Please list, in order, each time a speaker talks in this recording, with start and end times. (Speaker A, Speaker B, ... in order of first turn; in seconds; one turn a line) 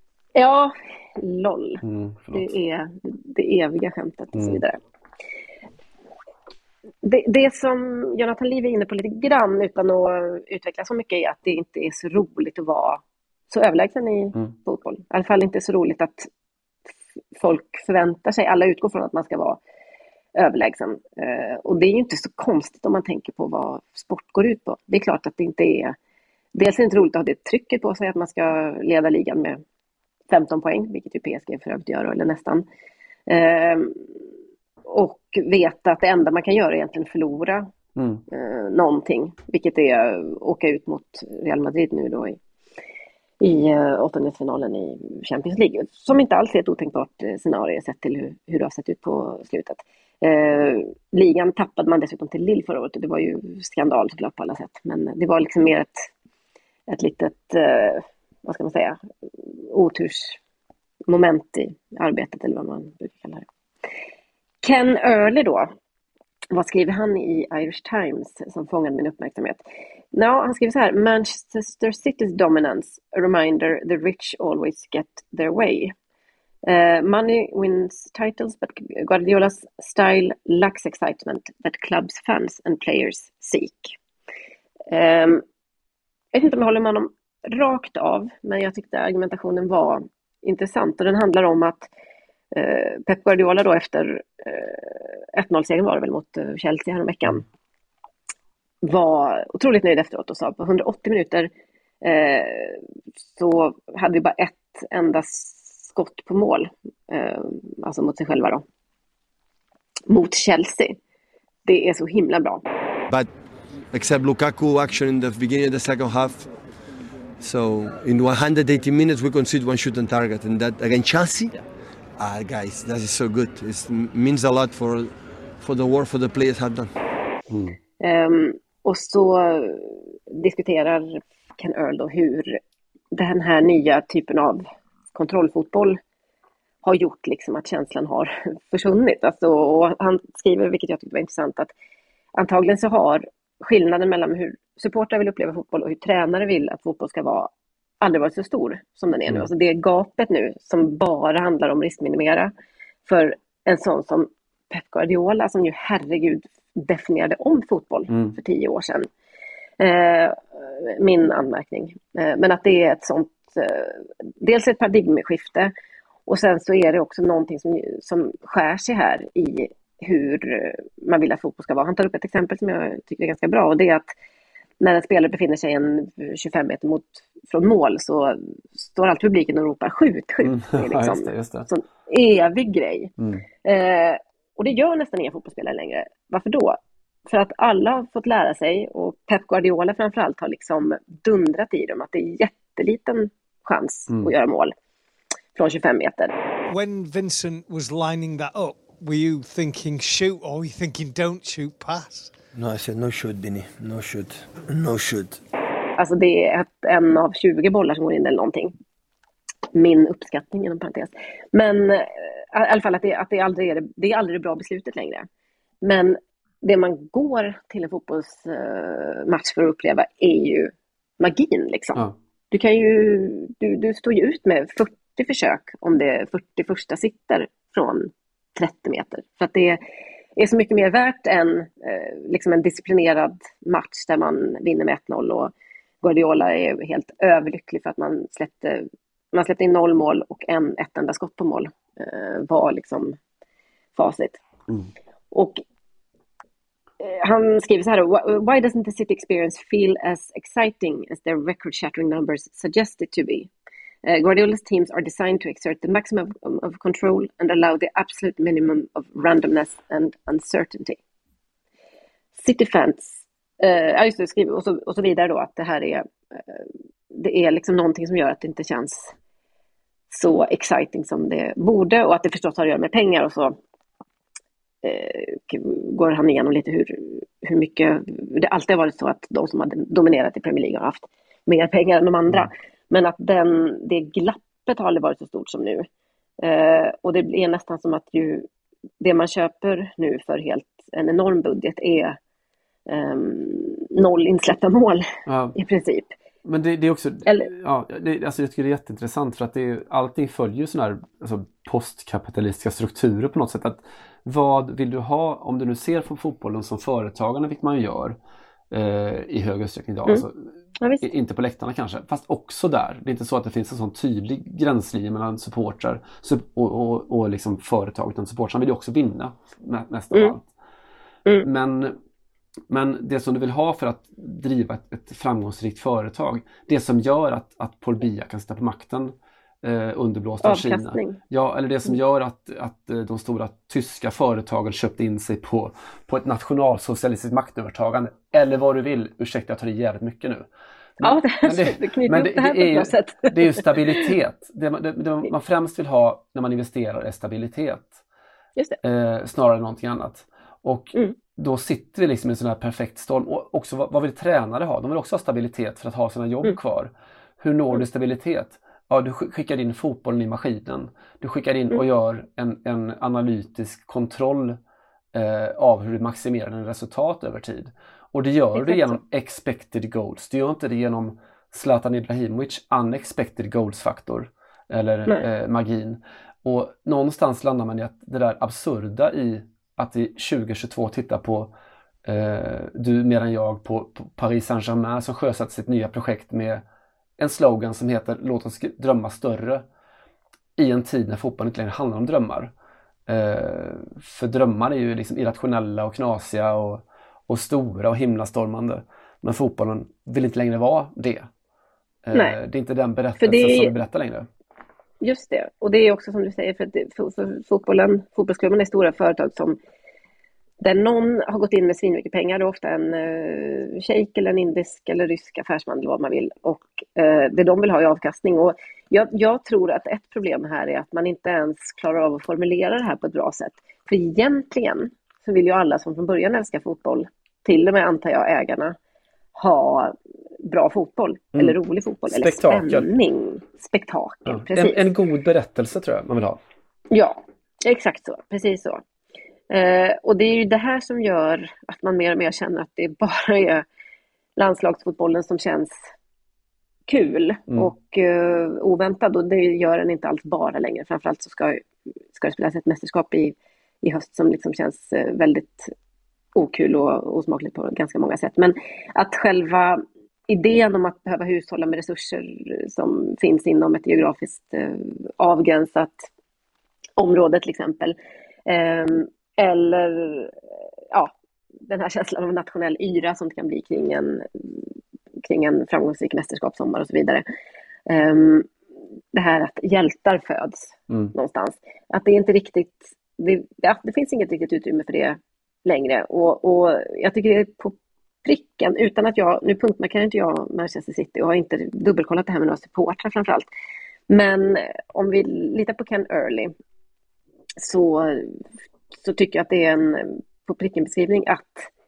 Speaker A: 0.3-1.8
Speaker B: 1.8-2.5
Speaker A: 2.3-4.8
Speaker B: 4.3-4.6
Speaker A: 7.0-16.3
Speaker A: 17.4-19.6
Speaker A: 20.4-26.0
Speaker A: 26.5-29.6
Speaker A: 30.3-32.6
Speaker A: 33.3-34.1
Speaker A: 34.9-37.7
Speaker B: 38.0-38.2
Speaker A: 38.3-42.4
Speaker A: 43.4-56.1
Speaker A: 56.9-59.0
Speaker A: 59.7-60.4
Speaker A: 61.1-63.5
Speaker A: 64.6-65.7
Speaker A: 66.5-75.9
Speaker A: 76.7-84.0
Speaker A: 84.9-85.4
Speaker A: 86.3-91.9
Speaker A: 92.5-97.4
Speaker A: 98.8-101.5
Speaker A: 102.0-102.8
Speaker A: 103.4-108.6
Speaker A: 110.1-111.0
Speaker A: 111.7-112.6
Speaker C: 113.9-116.5
Speaker C: 117.4-121.6
Speaker C: 122.2-126.9
Speaker B: 127.5-127.8
Speaker A: 128.0-132.6
Speaker A: 133.1-136.0
Speaker A: 136.8-141.7
Speaker A: 142.4-152.5
Speaker A: 153.1-159.1
Speaker B: 158.1-158.4
Speaker A: 159.8-165.7
Speaker A: 166.3-174.1
Speaker A: 174.8-194.7
Speaker B: 180.4-181.7
Speaker B: 183.2-183.4
Speaker A: 195.6-196.3
Speaker D: 196.7-202.4
Speaker C: 202.5-205.4
Speaker A: 206.0-208.7
Speaker A: 209.7-215.3
Speaker A: 215.8-229.8
Speaker A: 230.4-243.2
Speaker A: 243.9-244.4
Speaker A: 245.3-245.6
Speaker A: 247.0-253.5
Speaker A: 254.1-261.0
Speaker A: 262.4-269.1
Speaker A: 270.1-273.6
Speaker A: 274.8-285.9
Speaker A: 286.4-288.5
Speaker A: 289.0-292.2
Speaker A: 292.9-296.1
Speaker B: 295.3-295.6
Speaker B: 296.4-308.2
Speaker B: 308.7-320.5
Speaker A: 310.8-311.1
Speaker B: 321.4-322.0
Speaker B: 322.7-340.5
Speaker A: 330.4-331.2
Speaker B: 341.0-348.0
Speaker A: 341.0-344.1
Speaker B: 348.8-364.6
Speaker B: 365.1-381.5
Speaker A: 368.6-369.0
Speaker B: 382.1-386.6
Speaker B: 387.2-389.6
Speaker B: 390.6-392.5
Speaker B: 393.1-401.3
Speaker B: 402.1-404.3
Speaker A: 403.2-403.7
Speaker A: 405.0-409.6
Speaker A: 410.6-428.8
Speaker A: 429.4-434.9
Speaker B: 431.4-432.9
Speaker B: 434.3-436.4
Speaker A: 436.9-438.8
Speaker A: 439.5-443.6
Speaker A: 444.4-445.8
Speaker A: 446.9-455.7
Speaker A: 456.4-466.1
Speaker A: 467.0-470.4
Speaker A: 471.7-474.7
Speaker A: 475.2-477.2
Speaker A: 477.9-478.5
Speaker A: 479.1-493.5
Speaker A: 494.1-496.5
Speaker A: 497.6-498.4
Speaker A: 498.9-501.7